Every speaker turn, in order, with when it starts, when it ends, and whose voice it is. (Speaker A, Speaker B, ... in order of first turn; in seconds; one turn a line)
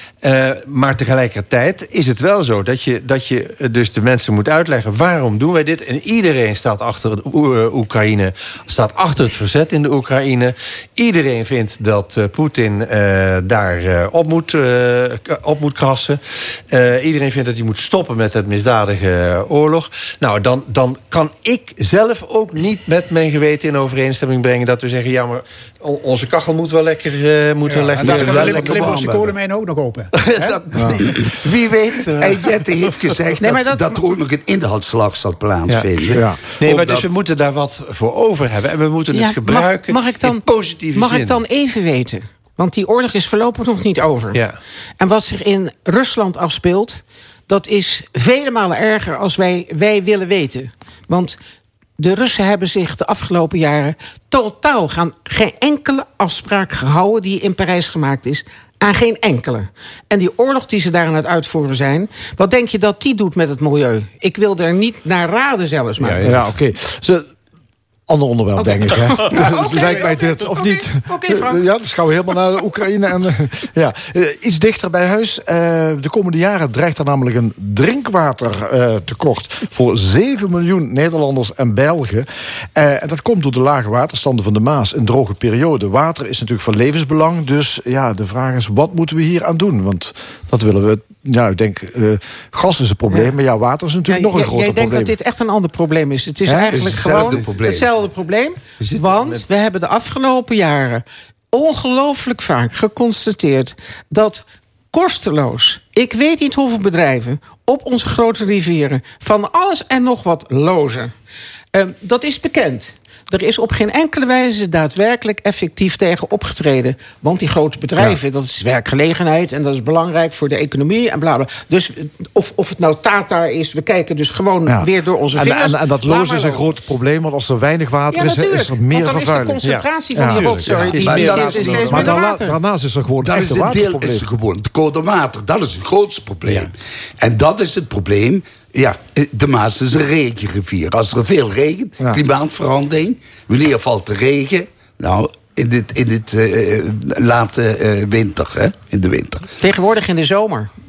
Speaker A: 0.2-29.3
Speaker B: 27.7-30.9
Speaker C: 28.1-29.1
Speaker A: 30.1-33.0
Speaker C: 32.2-37.1
Speaker D: 33.4-33.8
Speaker E: 36.1-36.4
Speaker A: 36.6-41.4
Speaker D: 39.1-44.4
Speaker A: 44.3-44.6
Speaker D: 45.0-51.4
Speaker D: 52.0-66.3
Speaker A: 66.0-66.5
Speaker E: 66.2-67.3
Speaker E: 68.1-95.2
Speaker D: 68.6-71.6
Speaker D: 93.1-93.3
Speaker D: 94.1-111.1
Speaker E: 96.5-97.0
Speaker C: 96.7-97.9
Speaker A: 96.9-97.8
Speaker A: 98.8-99.5
Speaker D: 111.7-126.7
Speaker E: 124.7-134.3
Speaker D: 128.1-132.6
Speaker A: 129.6-132.2
Speaker C: 131.0-132.2
Speaker C: 133.2-149.5
Speaker D: 149.6-150.7